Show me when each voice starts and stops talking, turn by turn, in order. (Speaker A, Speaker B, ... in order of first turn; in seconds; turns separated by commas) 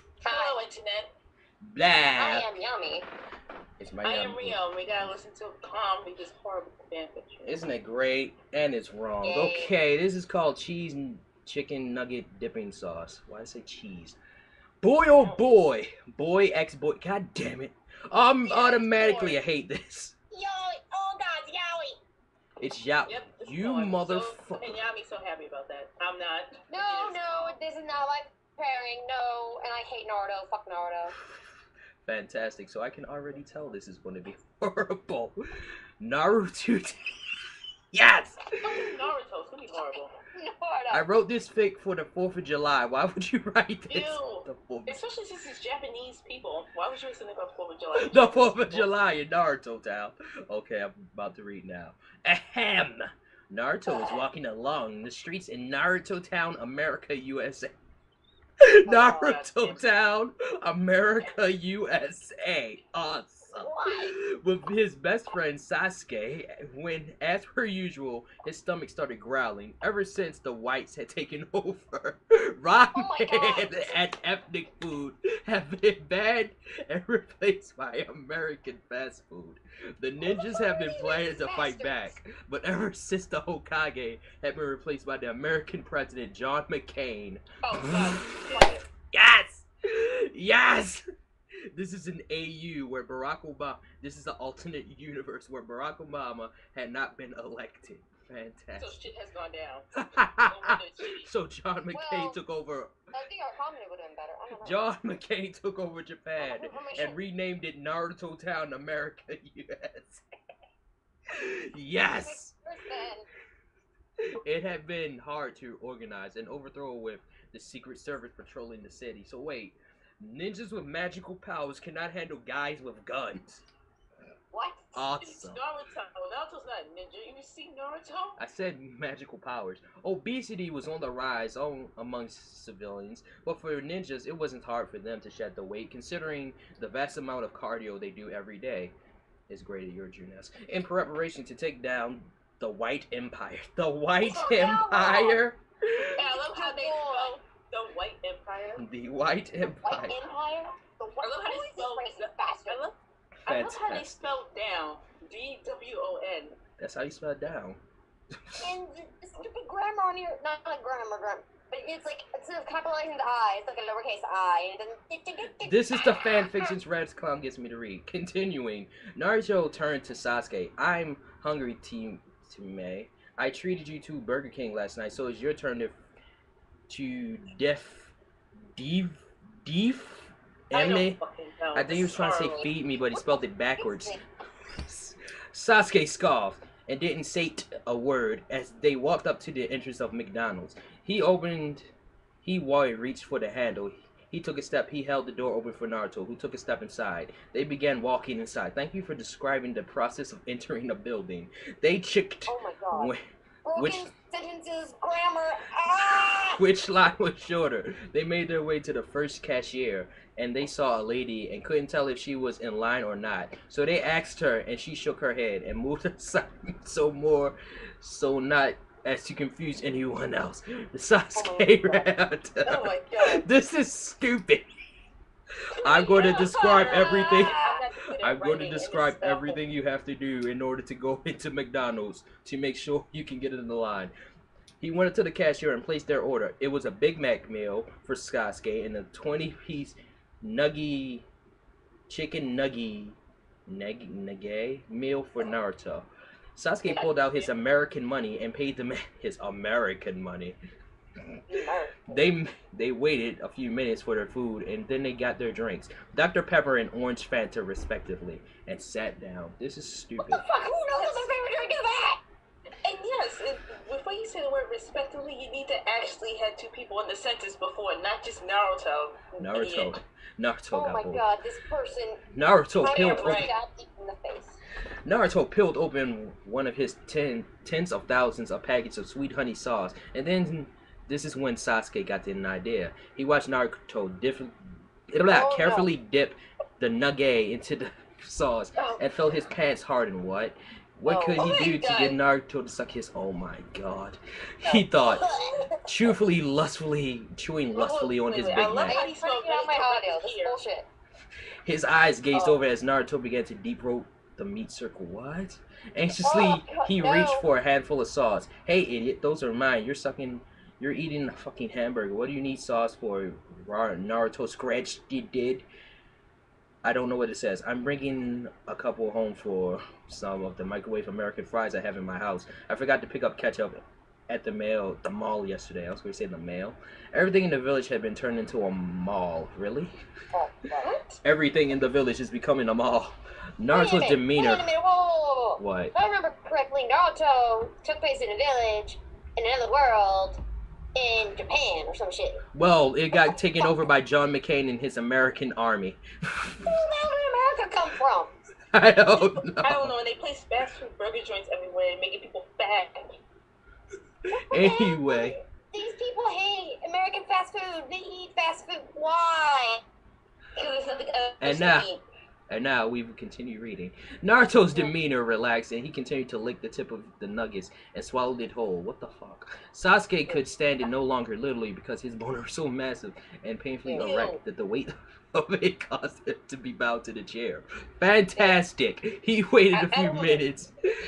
Speaker A: 0.2-1.1, Speaker B: 0.2-0.6, Speaker C: 1.7-2.5, Speaker B: 2.1-3.1, Speaker C: 3.8-5.2, Speaker A: 4.0-7.4, Speaker C: 7.4-14.2, Speaker B: 9.2-9.8, Speaker C: 14.8-20.1, Speaker A: 15.1-15.6, Speaker A: 18.5-19.4, Speaker B: 20.3-22.0, Speaker C: 22.6-24.8, Speaker A: 23.1-27.6, Speaker B: 26.7-31.1, Speaker C: 32.0-35.4, Speaker C: 36.0-37.0, Speaker C: 37.9-38.4, Speaker A: 38.6-40.1, Speaker B: 40.4-41.1, Speaker C: 40.9-45.0, Speaker A: 43.9-49.1, Speaker C: 48.0-57.7, Speaker C: 58.6-91.0, Speaker A: 58.9-59.8, Speaker B: 63.5-64.2, Speaker B: 72.9-74.0, Speaker B: 80.2-82.1, Speaker A: 87.6-88.9, Speaker C: 91.7-99.0, Speaker A: 98.8-101.3, Speaker C: 100.0-103.1, Speaker B: 101.9-102.4, Speaker B: 103.1-104.8, Speaker C: 104.6-110.2, Speaker B: 106.4-107.2, Speaker C: 111.3-112.5, Speaker B: 112.2-113.3, Speaker C: 114.4-123.6, Speaker B: 124.5-125.0, Speaker C: 124.9-125.6, Speaker A: 125.2-128.4, Speaker C: 128.4-138.9, Speaker C: 139.5-146.1, Speaker B: 144.2-145.4, Speaker B: 146.2-147.3, Speaker A: 146.2-148.8, Speaker C: 148.8-150.2, Speaker B: 149.8-152.8, Speaker A: 151.2-152.9, Speaker C: 153.5-154.4, Speaker A: 153.5-156.6, Speaker C: 156.8-157.8, Speaker C: 158.5-158.7, Speaker B: 158.6-166.8, Speaker C: 165.6-176.0, Speaker C: 176.9-178.2, Speaker C: 178.8-181.2, Speaker A: 180.7-182.7, Speaker C: 181.7-184.2, Speaker B: 183.8-184.2, Speaker C: 184.8-191.9, Speaker C: 192.4-203.2, Speaker B: 202.5-203.1, Speaker B: 203.7-206.6, Speaker C: 203.8-204.1, Speaker C: 206.6-224.7, Speaker B: 221.3-222.1, Speaker A: 222.6-223.5, Speaker C: 225.8-227.6, Speaker A: 225.8-229.6, Speaker B: 226.7-227.8, Speaker C: 228.2-234.1, Speaker C: 234.8-241.3, Speaker C: 242.1-250.6, Speaker A: 246.9-247.5, Speaker B: 251.5-252.2, Speaker C: 252.1-260.5, Speaker B: 260.2-262.2, Speaker A: 260.9-261.8, Speaker A: 262.8-269.9, Speaker C: 269.4-271.3, Speaker B: 270.7-272.2, Speaker C: 272.3-273.5, Speaker B: 272.8-274.6, Speaker A: 272.9-273.5, Speaker C: 275.1-284.6, Speaker C: 285.1-295.3, Speaker B: 285.3-285.9, Speaker A: 288.8-289.0, Speaker A: 291.1-292.2, Speaker B: 295.1-295.8, Speaker C: 295.9-299.1, Speaker A: 297.7-300.6, Speaker B: 298.9-300.9, Speaker C: 301.6-315.7, Speaker A: 302.3-302.6, Speaker B: 306.2-307.5, Speaker C: 316.8-329.9, Speaker B: 330.3-331.0, Speaker A: 330.8-331.1, Speaker C: 331.2-334.7, Speaker B: 333.7-340.4, Speaker C: 335.6-335.9, Speaker B: 340.9-342.4, Speaker C: 342.5-346.7, Speaker B: 346.6-348.3, Speaker C: 348.7-349.9, Speaker A: 349.6-353.1, Speaker B: 354.3-359.8, Speaker C: 354.4-355.4, Speaker A: 360.6-362.0, Speaker C: 361.4-361.9, Speaker C: 362.5-380.7, Speaker B: 373.9-374.1, Speaker A: 373.9-374.4, Speaker A: 379.7-380.4